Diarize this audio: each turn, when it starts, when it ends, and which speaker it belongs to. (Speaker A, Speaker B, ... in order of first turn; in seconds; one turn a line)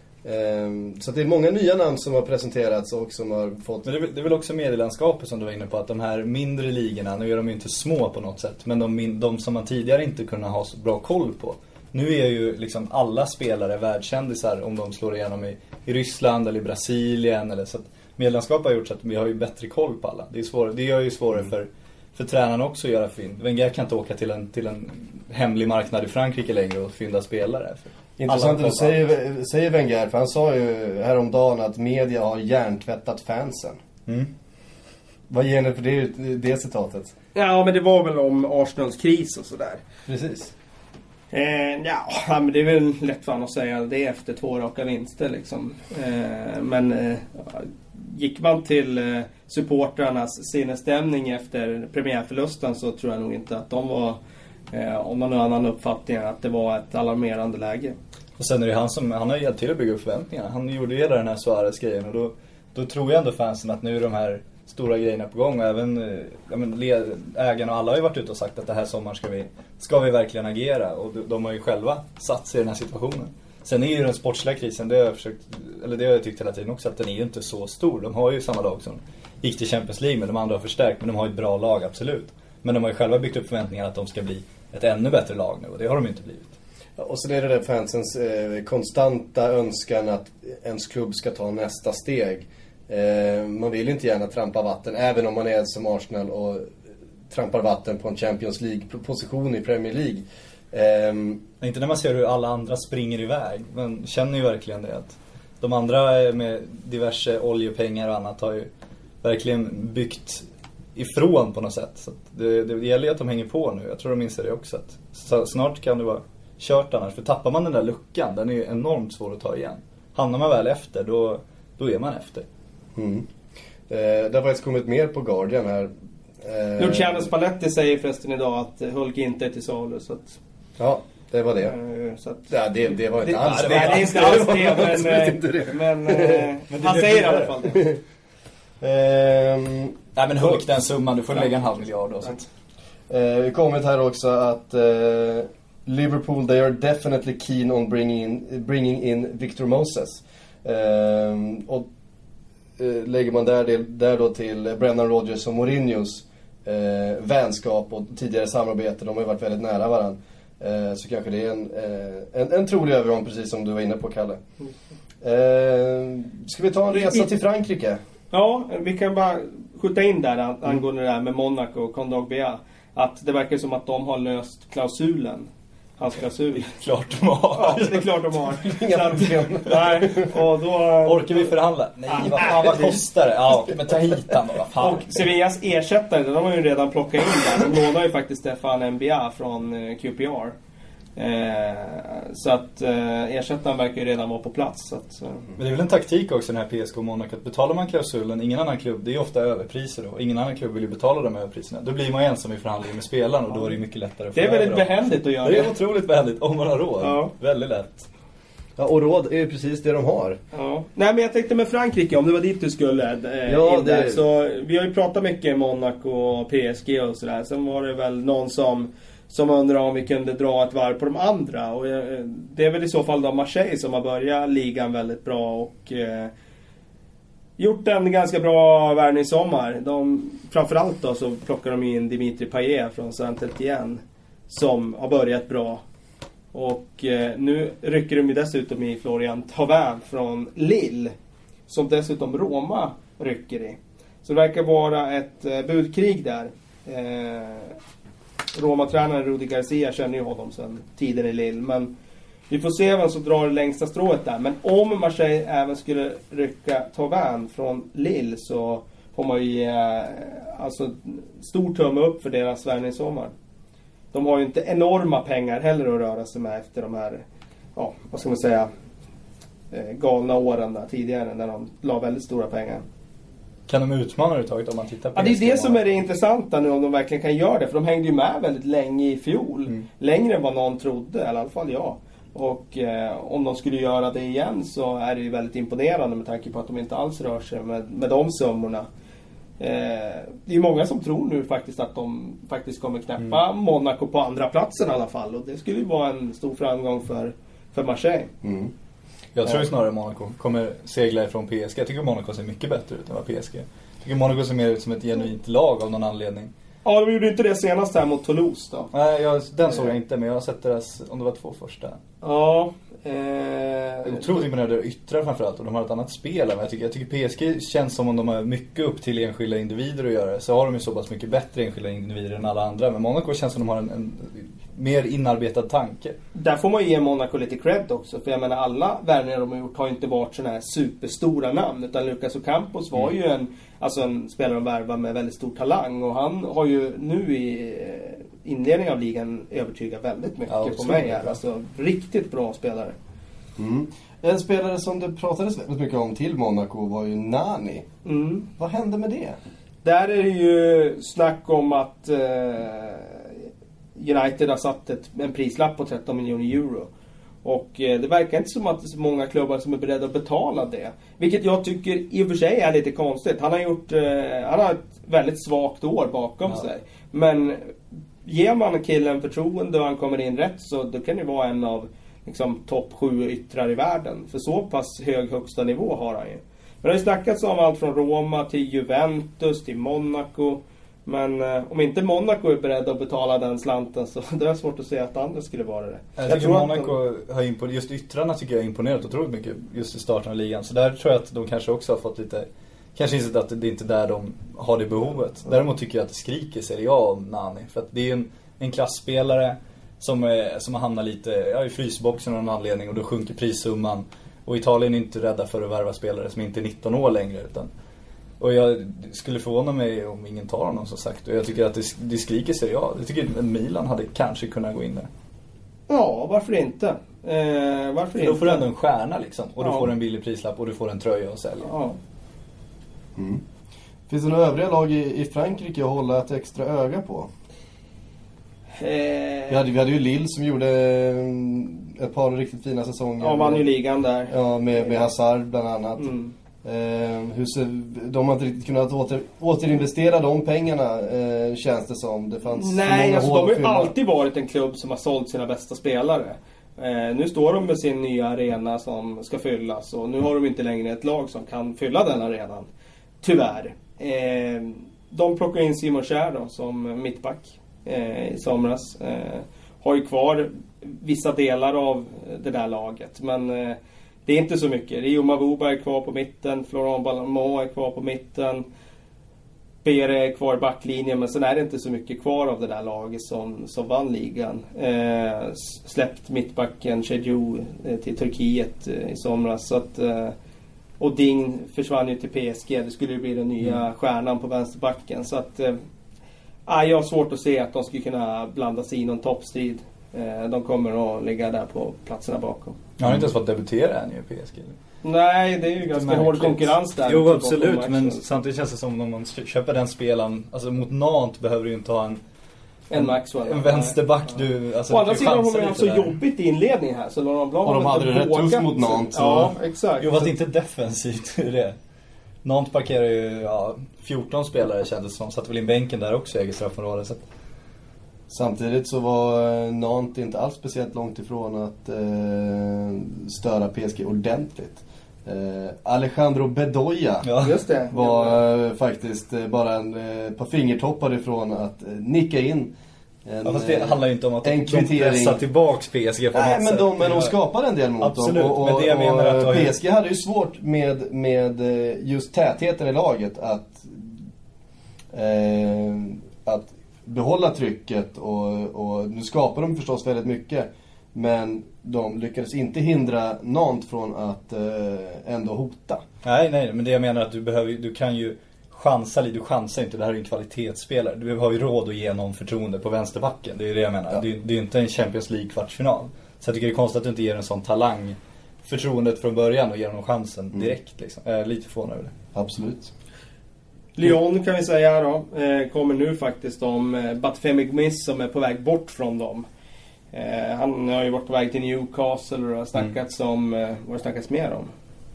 Speaker A: 0.2-3.9
Speaker B: 3.8-29.0
Speaker A: 28.2-33.8
Speaker A: 35.3-37.1
Speaker C: 37.3-39.8
Speaker A: 40.1-40.5
Speaker C: 41.3-54.2
Speaker C: 54.7-58.0
Speaker B: 58.4-86.5
Speaker A: 87.0-96.7
Speaker A: 97.3-101.4
Speaker B: 101.6-108.7
Speaker B: 109.2-110.4
Speaker B: 111.0-122.4
Speaker A: 123.0-123.2
Speaker A: 123.9-127.3
Speaker C: 126.8-130.4
Speaker A: 130.8-131.7
Speaker C: 131.6-132.5
Speaker A: 132.5-136.5
Speaker B: 133.2-134.9
Speaker C: 133.4-137.9
Speaker B: 136.7-137.6
Speaker A: 137.7-138.0
Speaker A: 138.8-139.9
Speaker B: 140.2-142.5
Speaker A: 143.1-151.9
Speaker A: 152.8-164.4
Speaker A: 165.2-168.0
Speaker C: 166.9-167.2
Speaker C: 168.3-176.7
Speaker B: 176.8-178.1
Speaker C: 177.5-181.5
Speaker A: 178.6-180.3
Speaker B: 181.0-185.2
Speaker C: 182.1-182.9
Speaker A: 182.5-182.9
Speaker C: 184.8-190.5
Speaker C: 191.2-195.4
Speaker B: 195.6-208.1
Speaker C: 204.3-205.7
Speaker C: 207.0-207.3
Speaker A: 208.8-210.4
Speaker C: 210.5-226.3
Speaker A: 213.5-214.2
Speaker C: 227.6-235.8
Speaker C: 236.5-241.1
Speaker C: 241.7-247.8
Speaker C: 248.5-251.9
Speaker C: 252.5-263.3
Speaker C: 264.1-267.2
Speaker C: 267.8-268.7
Speaker C: 269.7-272.8
Speaker B: 273.7-275.9
Speaker C: 275.1-288.9
Speaker C: 289.6-298.3
Speaker A: 298.4-298.7
Speaker B: 299.3-306.5
Speaker C: 306.8-308.9
Speaker B: 308.9-312.0
Speaker C: 312.2-314.4
Speaker B: 314.1-326.1
Speaker C: 326.4-342.9
Speaker B: 340.5-341.4
Speaker A: 343.6-347.9
Speaker C: 348.0-348.5
Speaker A: 348.6-349.4
Speaker C: 349.8-353.4
Speaker C: 354.0-356.9
Speaker C: 357.4-386.9
Speaker B: 386.1-407.7
Speaker B: 408.4-415.1
Speaker C: 415.9-418.6
Speaker B: 418.2-421.7
Speaker C: 419.6-419.9
Speaker C: 421.6-422.0
Speaker A: 423.1-423.4
Speaker A: 424.1-427.3
Speaker C: 428.8-429.6
Speaker A: 429.5-433.6
Speaker C: 433.2-435.0
Speaker A: 434.3-436.1
Speaker C: 436.0-436.3
Speaker A: 436.6-443.9
Speaker C: 442.5-452.7
Speaker C: 453.2-468.6
Speaker C: 469.8-480.3
Speaker C: 481.0-485.8
Speaker C: 486.6-492.8
Speaker B: 493.0-494.8
Speaker C: 495.0-498.2
Speaker B: 495.9-502.2
Speaker C: 502.9-504.3
Speaker B: 502.9-506.1
Speaker C: 504.9-510.3
Speaker A: 507.6-509.5
Speaker B: 510.0-511.8
Speaker B: 512.4-517.2
Speaker A: 518.3-527.3
Speaker B: 527.2-527.6
Speaker C: 527.4-528.4
Speaker A: 527.9-532.7
Speaker A: 533.2-535.4
Speaker B: 533.4-537.3
Speaker A: 536.3-544.2
Speaker B: 538.0-539.8
Speaker A: 545.1-556.0
Speaker B: 556.2-572.1
Speaker A: 572.3-572.9
Speaker C: 574.0-579.5
Speaker C: 580.1-584.7